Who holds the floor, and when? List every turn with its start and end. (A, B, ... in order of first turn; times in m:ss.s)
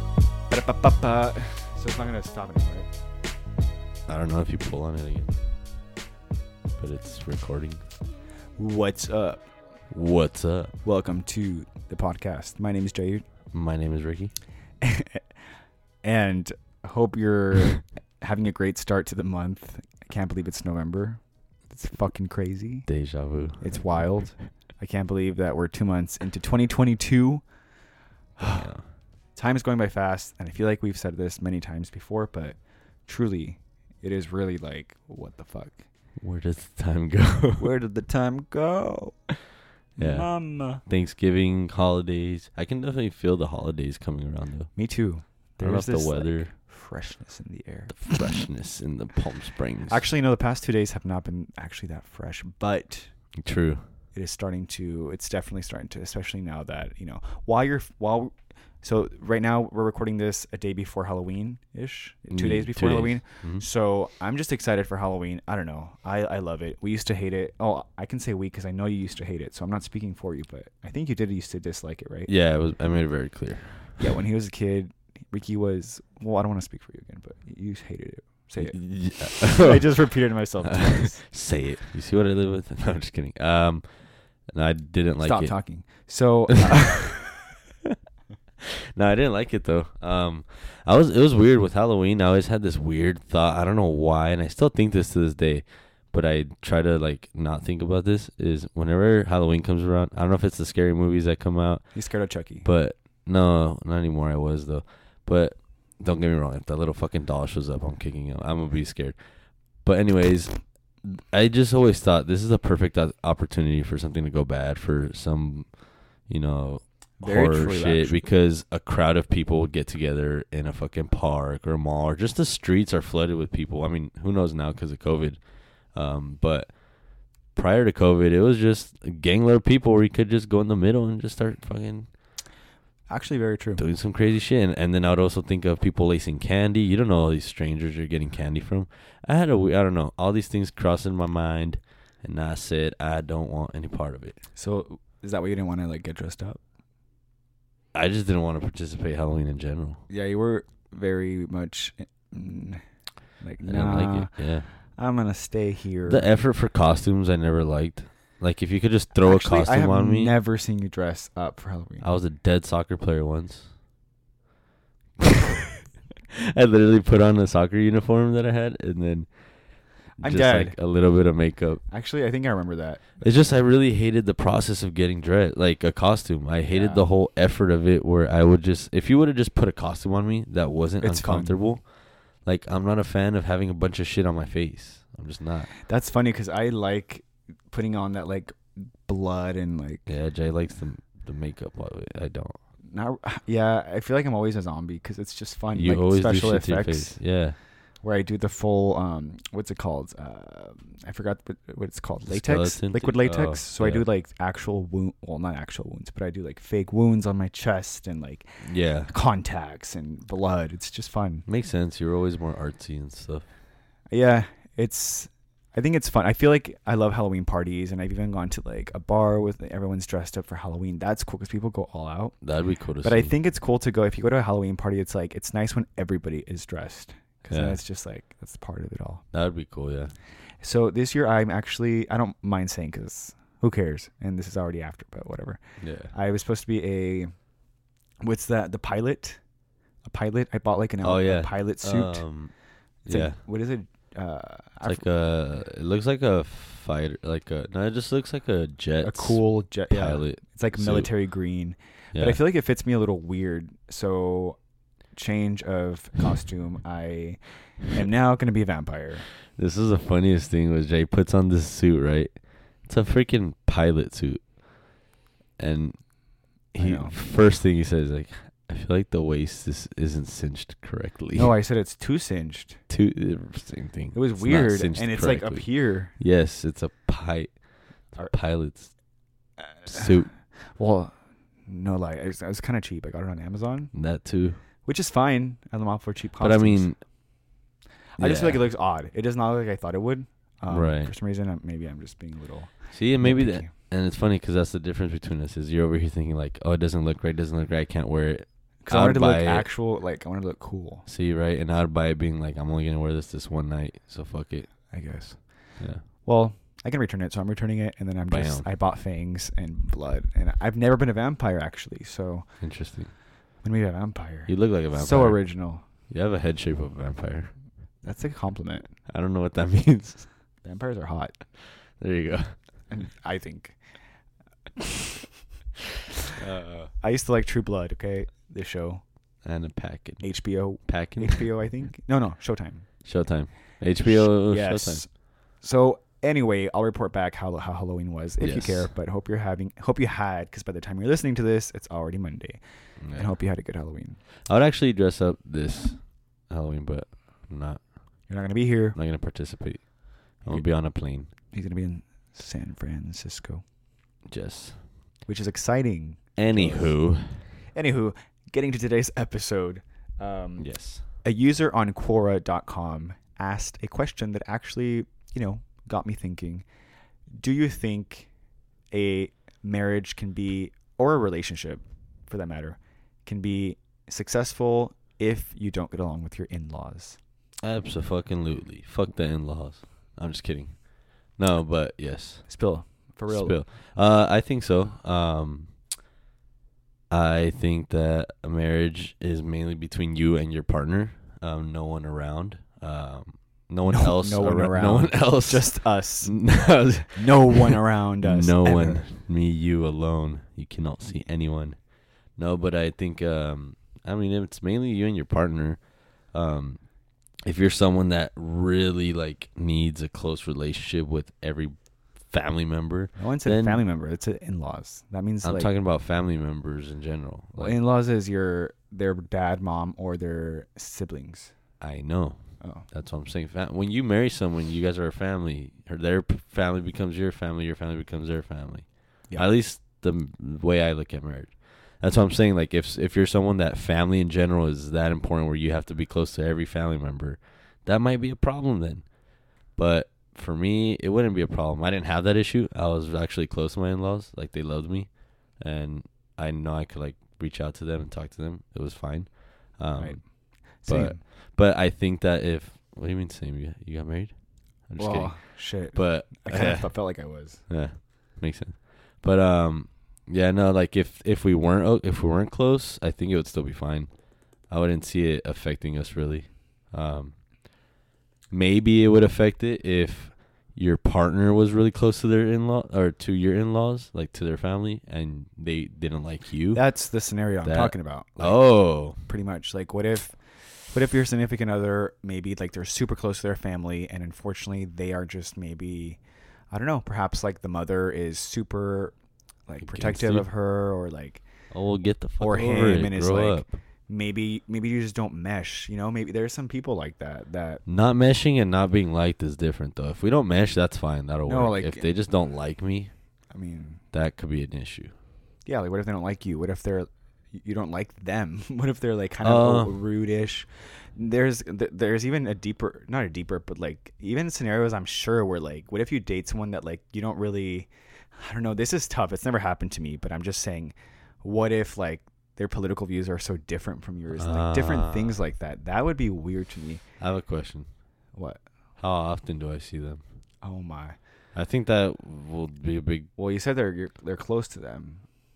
0:00.5-0:02.8 A
0:04.1-0:05.3 B
0:06.8-0:07.8 B
0:08.6-0:09.4 A
0:09.9-0:10.7 B
0:10.8-0:13.2 A
0:13.5-0:14.3 B
0:14.8-0:15.2 A
0:16.0-0:22.9 A
0:22.9-0:24.2 B
0:23.6-0:27.4 A
0:28.4-0:28.7 A
0:28.4-0:28.8 B
0:29.3-0:35.8 A
0:36.2-0:37.7 B
0:37.6-0:39.3 A
0:40.0-0:40.8 A
0:40.0-0:44.7 B
0:44.7-0:48.4 A
0:45.6-0:46.5 B
0:47.9-0:50.0 B
0:49.9-0:53.1 A
0:53.4-0:53.8 B
0:54.1-1:12.3 A
1:02.3-1:03.6 B
1:12.3-1:14.1 B
1:14.0-1:21.2 A
1:18.6-1:19.8 B
1:20.6-1:25.5 B
1:25.2-1:27.2 A
1:26.6-1:27.1 B
1:29.0-1:41.9 B
1:41.9-1:42.7 A
1:42.6-1:49.2 B
1:49.8-2:06.8 B
1:57.2-1:58.2 A
2:07.5-2:12.1 B
2:13.1-2:13.8 A
2:13.8-2:24.4 B
2:24.6-2:26.6 A
2:27.9-2:30.0 B
2:30.1-2:32.8 A
2:33.4-2:36.3 A
2:33.6-2:34.7 B
2:36.0-2:40.3 B
2:39.1-2:42.1 A
2:42.0-2:43.7 B
2:46.3-2:49.4 B
2:50.2-2:50.8 A
2:50.2-2:51.8 B
2:51.9-2:53.2 A
2:53.2-3:05.7 B
2:56.7-2:57.0 A
3:01.0-3:01.5 A
3:05.8-3:10.1 A
3:10.1-3:12.6 B
3:12.8-3:17.2 A
3:15.7-3:17.6 B
3:18.0-3:31.4 A
3:22.3-3:24.0 B
3:28.6-3:29.1 B
3:31.5-3:33.4 B
3:34.1-3:42.4 A
3:42.4-3:43.3 B
3:43.0-3:49.2 A
3:47.5-3:47.8 B
3:49.3-3:50.1 B
3:50.6-3:57.3 A
3:55.8-3:56.1 B
3:58.2-3:59.4 A
4:00.0-4:02.3 A
4:01.0-4:02.5 B
4:03.0-4:05.0 A
4:03.0-4:03.4 B
4:04.8-4:11.1 B
4:09.0-4:14.6 A
4:12.1-4:12.4 B
4:15.1-4:19.3 A
4:19.5-4:24.5 B
4:25.6-4:26.1 B
4:26.7-4:31.5 B
4:26.8-4:27.2 A
4:31.3-4:32.8 A
4:32.9-4:38.9 B
4:34.1-4:36.2 A
4:39.6-4:43.9 A
4:39.8-4:40.3 B
4:43.9-4:44.6 B
4:44.8-4:46.9 A
4:46.4-4:47.0 B
4:48.2-4:53.7 A
4:48.2-4:48.6 B
4:50.7-4:51.1 B
4:52.9-4:59.7 B
4:58.8-5:01.1 A
5:01.1-5:04.8 B
5:04.9-5:12.6 A
5:08.3-5:08.7 B
5:12.6-5:13.2 B
5:13.6-5:15.8 A
5:14.5-5:15.5 B
5:16.1-5:17.6 B
5:18.0-5:18.9 A
5:19.1-5:20.3 B
5:20.6-5:21.4 A
5:21.7-5:22.6 B
5:22.9-5:23.8 A
5:26.4-5:26.9 B
5:26.9-5:29.0 A
5:29.4-5:31.5 B
5:30.2-5:33.0 A
5:33.0-5:35.0 B
5:33.8-5:42.6 A
5:38.4-5:38.9 B
5:43.0-5:43.4 B
5:43.1-5:44.2 A
5:44.4-5:47.9 B
5:48.3-5:49.0 A
5:48.9-5:51.3 B
5:51.5-5:53.6 A
5:54.2-5:54.8 B
5:55.2-5:57.0 A
5:56.4-5:57.4 B
5:57.7-6:06.6 A
6:00.6-6:01.0 B
6:07.3-6:08.3 A
6:08.9-6:17.2 A
6:17.6-6:22.5 B
6:22.4-6:23.6 A
6:23.3-6:25.8 B
6:27.1-6:46.8 B
6:33.9-6:39.1 A
6:47.4-6:53.8 B
6:53.2-6:55.7 A
6:55.4-6:57.8 B
6:57.5-7:01.5 A
7:01.8-7:19.1 B
7:02.6-7:02.9 A
7:19.7-7:37.1 B
7:30.0-7:31.2 A
7:35.0-7:37.6 A
7:37.7-7:47.4 B
7:48.5-7:56.8 B
7:56.7-8:09.2 A
7:57.6-7:59.2 B
8:09.7-8:11.4 A
8:09.8-8:10.5 B
8:11.7-8:13.7 B
8:12.4-8:17.8 A
8:17.8-8:23.1 B
8:21.4-8:22.1 A
8:23.5-8:24.0 A
8:24.1-8:25.1 B
8:25.6-8:47.0 A
8:29.4-8:30.0 B
8:44.3-8:45.4 B
8:47.2-8:47.9 B
8:48.3-8:48.6 A
8:49.0-8:50.2 B
8:50.6-8:51.2 A
8:51.5-8:53.3 B
8:53.4-8:55.3 A